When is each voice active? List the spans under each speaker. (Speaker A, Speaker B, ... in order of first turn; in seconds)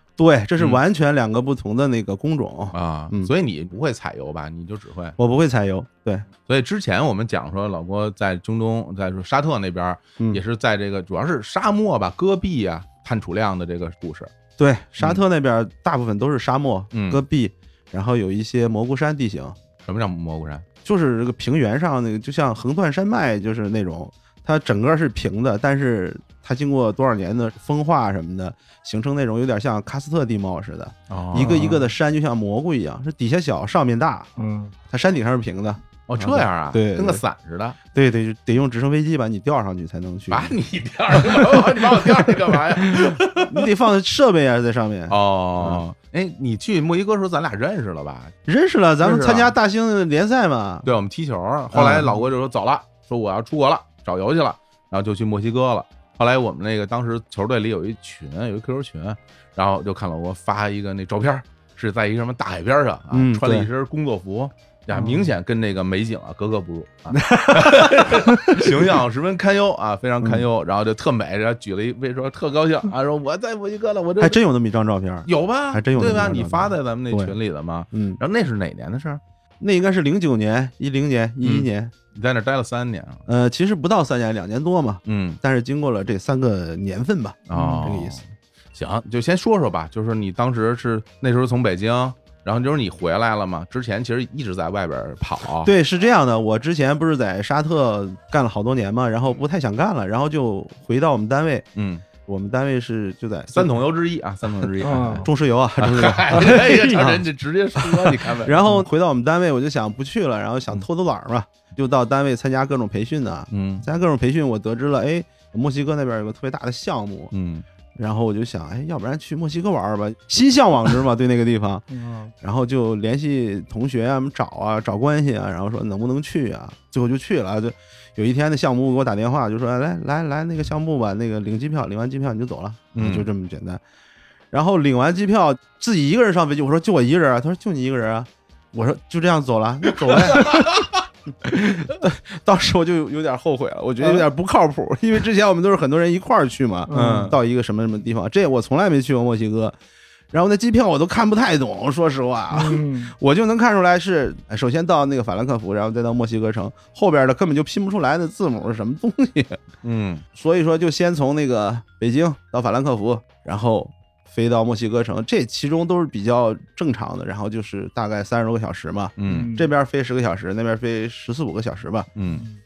Speaker A: 0.2-3.3, 5.2-6.2, 14.6-19.6, 20.8-34.3, 34.9-37.2, 37.9-40.5, 41.4-42.2, 42.9-45.8, 48.5-50.9, 51.7-52.1, 63.1-63.7, 67.1-68.9, 74.2-77.3, 77.9-78.2, 79.6-81.9, 83.3-88.2, 95.6-101.7, 102.2-103.8, 105.2-107.2, 108.4-117.3, 118.0-121.8, 122.4-133.8, 134.5-140.6, 141.5-149.8, 150.3-159.6, 160.3-172.1
Speaker B: 2.7-5.2, 6.5-14.3, 16.9-17.2, 19.8-20.6, 31.1-31.8, 36.1-37.8, 40.3-43.7, 45.1-48.3, 49.0-49.5, 50.8-74.4, 75.3-79.2, 81.4-83.2, 85.0-85.4, 87.5-88.2, 88.7-95.7, 101.7-102.0, 103.5-105.3, 105.8-108.8, 113.5-113.8, 117.3-117.6, 132.9-133.3, 140.0-141.0, 146.9-147.3, 159.8-160.2, 169.2-169.5, 172.2-172.4
Speaker C: 31.4-31.7, 34.4-34.7, 64.9-65.3, 104.8-105.3, 106.3-107.1, 121.9-122.3, 146.9-147.3, 152.5-153.1, 169.3-169.7